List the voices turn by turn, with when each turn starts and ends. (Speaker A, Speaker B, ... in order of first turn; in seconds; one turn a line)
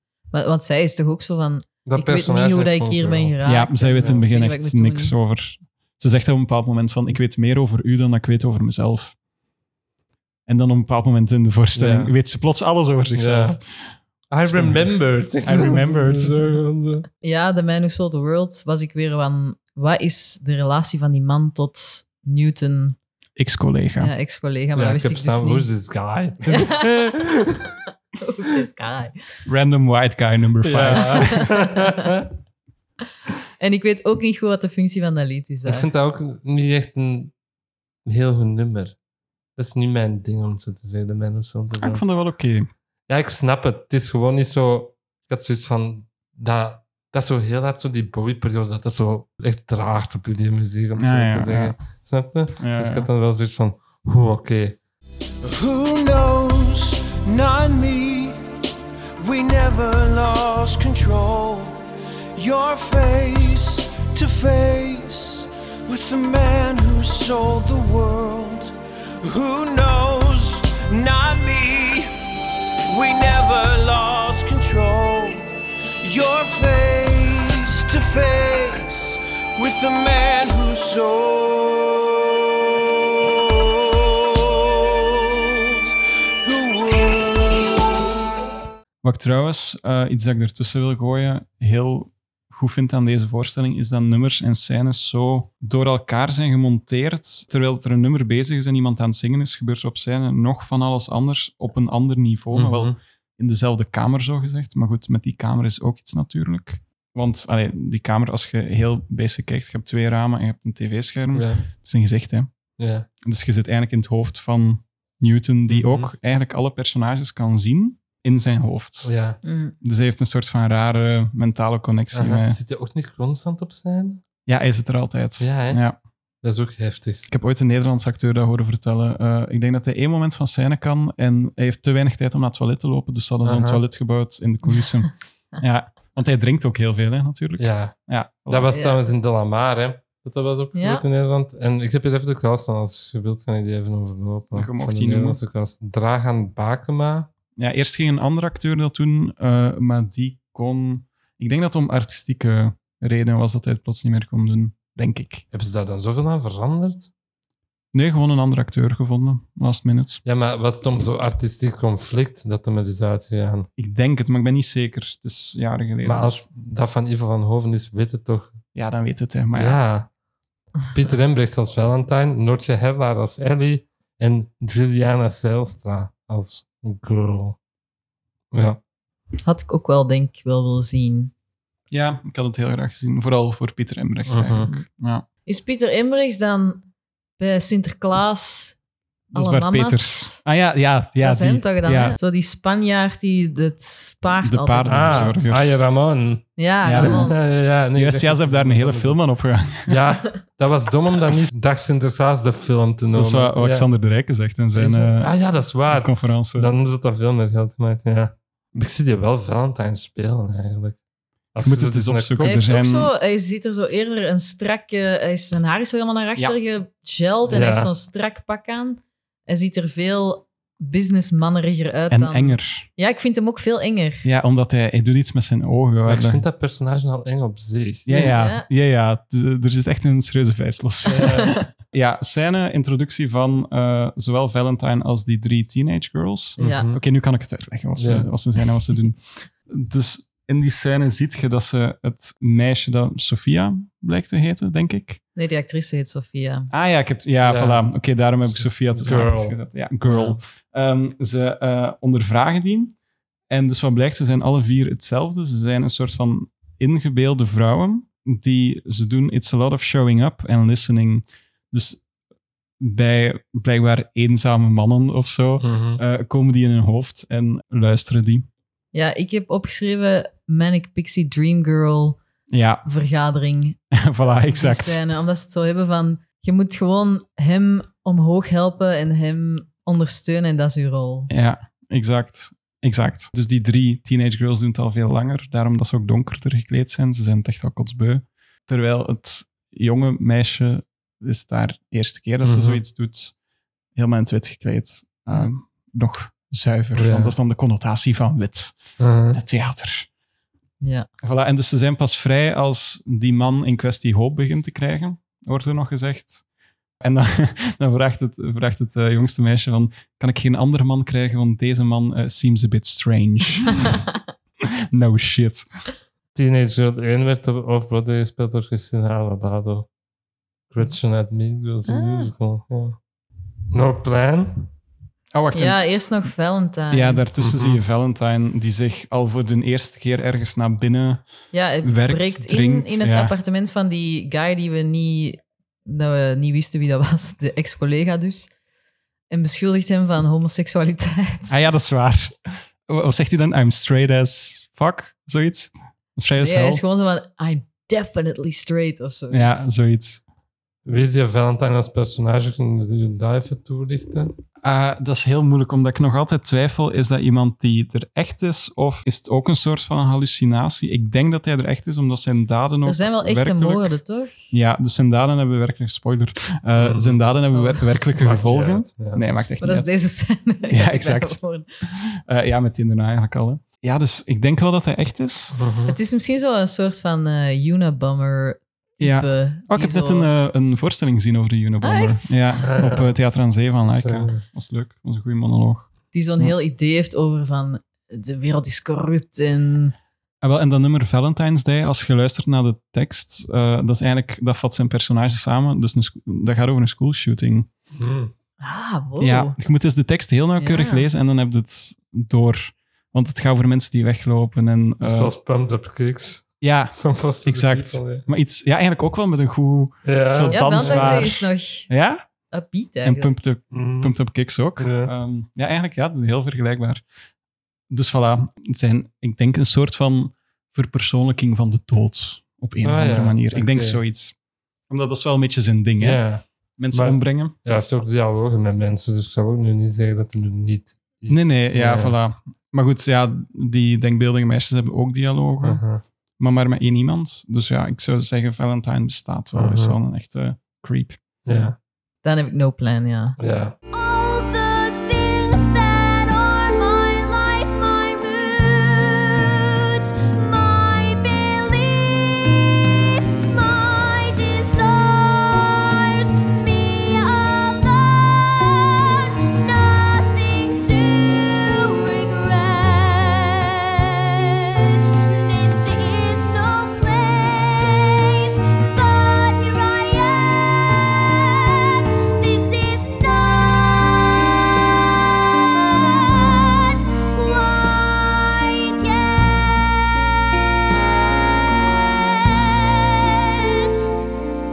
Speaker A: 0.3-5.2
Speaker B: 1.9-3.3
Speaker C: 3.4-9.2
Speaker C: 10.5-16.6
Speaker B: 11.8-12.2
Speaker B: 13.2-13.6
Speaker B: 14.3-17.1
Speaker A: 17.2-23.0
Speaker C: 23.4-24.1
Speaker A: 24.0-25.7
Speaker B: 24.8-27.8
Speaker A: 26.5-27.0
Speaker A: 28.2-29.3
Speaker C: 29.5-31.5
Speaker B: 30.6-32.3
Speaker A: 31.2-31.9
Speaker A: 33.6-35.9
Speaker B: 35.6-37.3
Speaker B: 38.0-39.0
Speaker B: 39.6-42.0
Speaker C: 41.8-42.7
Speaker B: 43.1-54.8
Speaker C: 51.0-51.8
Speaker C: 52.6-53.1
Speaker D: 55.4-58.4
Speaker D: 59.2-61.8
Speaker D: 62.4-72.1
Speaker D: 72.9-75.5
Speaker D: 76.0-82.4
Speaker D: 83.4-84.9
Speaker D: 86.4-87.4
Speaker C: 89.0-112.5
Speaker B: 102.5-103.0
Speaker B: 111.3-111.7
Speaker B: 112.8-113.1
Speaker C: 113.2-119.1
Speaker B: 115.7-116.1
Speaker B: 119.0-119.4
Speaker A: 119.4-119.8
Speaker C: 119.8-122.6
Speaker B: 122.1-124.2
Speaker C: 124.5-126.0
Speaker B: 125.4-125.8
Speaker B: 126.4-127.3
Speaker C: 127.3-138.7
Speaker B: 133.4-133.8
Speaker B: 137.6-137.9
Speaker B: 138.5-147.3
Speaker A: 138.7-139.1
Speaker A: 140.8-141.0
Speaker C: 144.6-145.4
Speaker C: 147.6-155.4
Speaker B: 155.5-157.1
Speaker C: 157.9-160.2
Speaker B: 160.2-163.7
Speaker C: 163.8-166.5
Speaker B: 166.0-168.6
Speaker C: 168.8-169.8
Speaker B: 169.5-170.1
Speaker B: 170.9-177.6
Speaker B: 178.5-178.8
Speaker A: 179.4-181.3
Speaker C: 181.9-185.2
Speaker B: 184.3-184.7
Speaker A: 185.5-186.9
Speaker A: 187.4-188.8
Speaker A: 189.3-190.4
Speaker C: 189.3-192.2
Speaker A: 191.2-195.3
Speaker C: 194.4-195.6
Speaker B: 194.9-199.2
Speaker A: 196.6-197.4
Speaker C: 196.8-197.4
Speaker C: 197.9-200.0
Speaker B: 199.8-203.9
Speaker C: 203.1-205.3
Speaker B: 204.7-211.0
Speaker C: 205.9-206.7
Speaker B: 211.5-212.6
Speaker C: 211.6-213.1
Speaker A: 212.4-224.3
Speaker B: 217.5-217.9
Speaker C: 222.1-222.9
Speaker C: 224.2-226.4
Speaker B: 226.1-228.4
Speaker C: 228.1-245.2
Speaker A: 228.1-228.7
Speaker B: 231.1-231.6
Speaker A: 231.2-231.7
Speaker A: 236.6-236.9
Speaker B: 236.6-237.0
Speaker B: 238.0-238.3
Speaker A: 245.3-246.7
Speaker C: 246.7-252.9
Speaker B: 247.4-247.9
Speaker B: 248.4-250.4
Speaker C: 253.5-262.0
Speaker C: 262.8-268.5
Speaker B: 265.6-266.0
Speaker A: 268.9-272.2
Speaker C: 272.5-272.8
Speaker A: 272.9-281.3
Speaker C: 273.9-275.0
Speaker C: 281.3-293.4
Speaker B: 292.4-292.8
Speaker C: 293.9-298.8
Speaker B: 296.9-297.4
Speaker B: 299.0-299.4
Speaker C: 299.3-300.1
Speaker A: 300.8-301.1
Speaker C: 301.2-306.4
Speaker C: 307.0-313.9
Speaker C: 314.9-315.7
Speaker B: 316.3-319.9
Speaker B: 320.7-323.0
Speaker A: 321.9-322.3
Speaker B: 323.7-324.7
Speaker C: 325.3-325.8
Speaker A: 325.5-327.2
Speaker C: 326.9-333.3
Speaker B: 327.4-327.8
Speaker A: 331.5-338.5
Speaker A: 339.3-341.6
Speaker C: 341.5-346.8
Speaker A: 346.4-349.7
Speaker C: 349.3-350.2
Speaker B: 350.9-354.3
Speaker C: 354.6-363.9
Speaker A: 362.9-364.3
Speaker C: 364.5-369.9
Speaker B: 366.8-367.2
Speaker B: 368.1-369.2
Speaker A: 369.6-371.7
Speaker C: 370.7-375.6
Speaker B: 375.6-376.0
Speaker A: 375.9-380.3
Speaker C: 379.0-386.6
Speaker A: 381.8-382.4
Speaker B: 382.6-383.1
Speaker B: 383.9-384.4
Speaker A: 386.1-389.9
Speaker C: 390.4-397.7
Speaker B: 397.9-398.3
Speaker A: 398.6-399.6
Speaker C: 399.2-405.3
Speaker A: 400.6-401.1
Speaker B: 405.0-408.3
Speaker C: 406.6-412.2
Speaker B: 410.1-411.3
Speaker A: 410.5-411.9
Speaker A: 412.5-413.3
Speaker C: 413.0-417.0
Speaker B: 413.7-414.1
Speaker B: 414.8-415.1
Speaker C: 417.9-424.4
Speaker B: 422.8-424.0
Speaker C: 424.9-426.2
Speaker B: 426.0-432.2
Speaker C: 426.8-427.6
Speaker C: 431.3-435.8
Speaker B: 435.6-436.0
Speaker C: 436.4-441.2
Speaker B: 439.5-440.0
Speaker B: 441.4-441.8
Speaker A: 442.2-443.4
Speaker B: 443.4-443.8
Speaker E: 443.9-484.1